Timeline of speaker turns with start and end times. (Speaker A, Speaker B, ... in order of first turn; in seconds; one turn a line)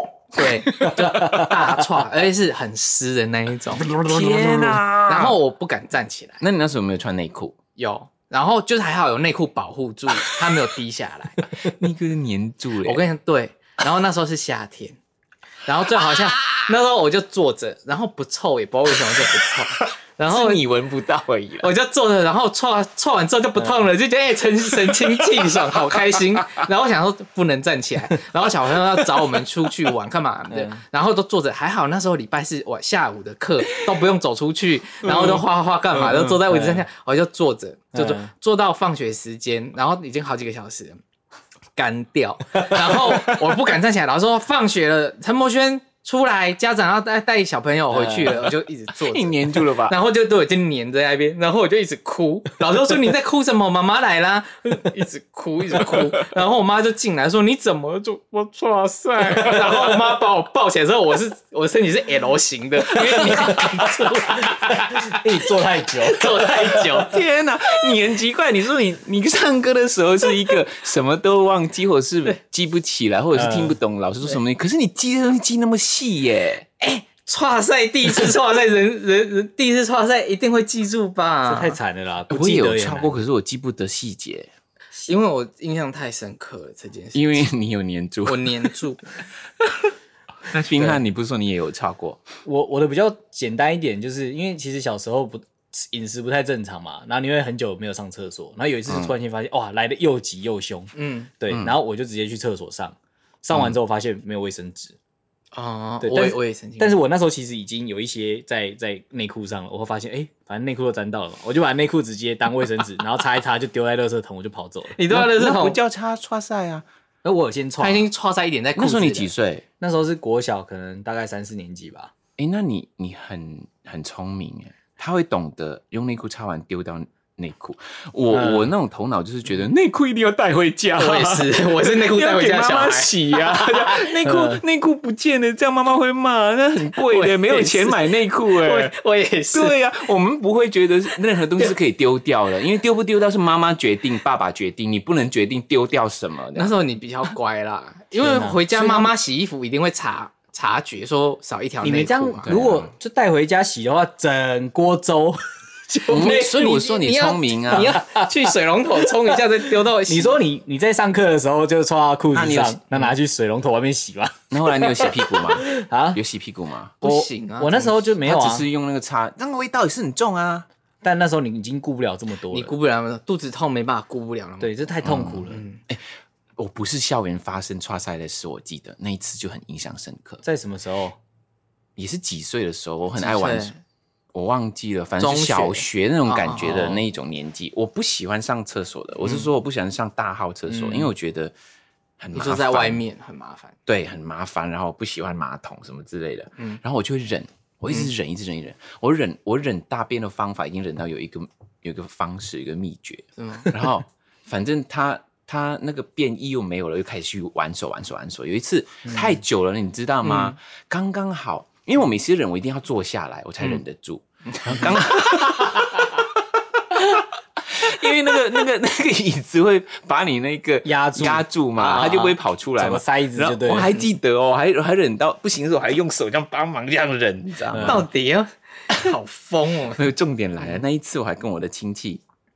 Speaker A: 0.3-3.9
Speaker B: 0.8-1.6
Speaker B: 3.9-4.8
Speaker C: 3.9-5.4
Speaker A: 5.0-6.4
Speaker C: 6.4-7.6
Speaker A: 7.8-11.7
Speaker C: 11.5-13.0
Speaker A: 12.8-15.0
Speaker A: 15.7-20.6
Speaker C: 19.3-21.7
Speaker A: 21.6-41.0
Speaker B: 23.6-23.8
Speaker C: 24.9-26.6
Speaker B: 30.5-30.8
Speaker B: 35.0-35.4
Speaker B: 36.0-36.9
Speaker B: 38.0-38.3
Speaker A: 41.8-67.2
Speaker B: 47.9-48.5
Speaker C: 49.0-50.0
Speaker B: 63.0-67.0
Speaker C: 66.9-76.7
Speaker B: 73.3-73.8
Speaker A: 76.8-81.8
Speaker B: 81.5-83.2
Speaker C: 82.3-84.5
Speaker A: 85.1-87.5
Speaker C: 87.1-88.7
Speaker A: 88.2-89.0
Speaker C: 89.6-89.9
Speaker C: 90.5-92.2
Speaker B: 92.5-105.0
Speaker C: 98.9-99.1
Speaker A: 101.0-101.3
Speaker C: 101.5-101.8
Speaker A: 105.5-107.0
Speaker B: 106.0-115.0
Speaker A: 115.0-115.8
Speaker C: 115.1-116.9
Speaker B: 117.2-118.1
Speaker A: 117.8-119.3
Speaker C: 118.8-119.7
Speaker B: 119.8-122.1
Speaker C: 122.4-138.9
Speaker B: 128.3-128.7
Speaker A: 131.0-134.1
Speaker B: 134.2-134.6
Speaker A: 137.1-139.8
Speaker C: 139.5-146.7
Speaker A: 146.6-152.5
Speaker B: 148.2-149.1
Speaker B: 151.8-156.5
Speaker C: 152.5-152.9
Speaker A: 156.1-160.4
Speaker C: 156.1-158.0
Speaker B: 157.7-158.3
Speaker B: 159.9-166.2
Speaker C: 162.3-163.2
Speaker C: 164.5-166.9
Speaker A: 167.0-168.1
Speaker B: 167.0-168.7
Speaker C: 168.2-170.7
Speaker B: 171.0-172.8
Speaker A: 172.5-174.9
Speaker B: 174.6-175.6
Speaker C: 175.0-176.1
Speaker A: 175.5-175.8
Speaker C: 176.6-180.4
Speaker B: 180.4-181.2
Speaker C: 182.0-183.8
Speaker A: 183.2-183.8
Speaker C: 184.3-191.5
Speaker A: 185.2-187.0
Speaker A: 189.2-189.5
Speaker B: 190.7-191.1
Speaker C: 192.2-193.0
Speaker A: 192.3-193.8
Speaker C: 193.9-216.4
Speaker A: 203.4-203.9
Speaker A: 210.2-210.6
Speaker A: 214.5-215.0
Speaker C: 216.9-228.1
Speaker B: 220.8-221.5
Speaker A: 221.8-222.4
Speaker B: 222.8-224.0
Speaker B: 227.7-228.1
Speaker A: 227.8-230.1
Speaker C: 229.9-232.2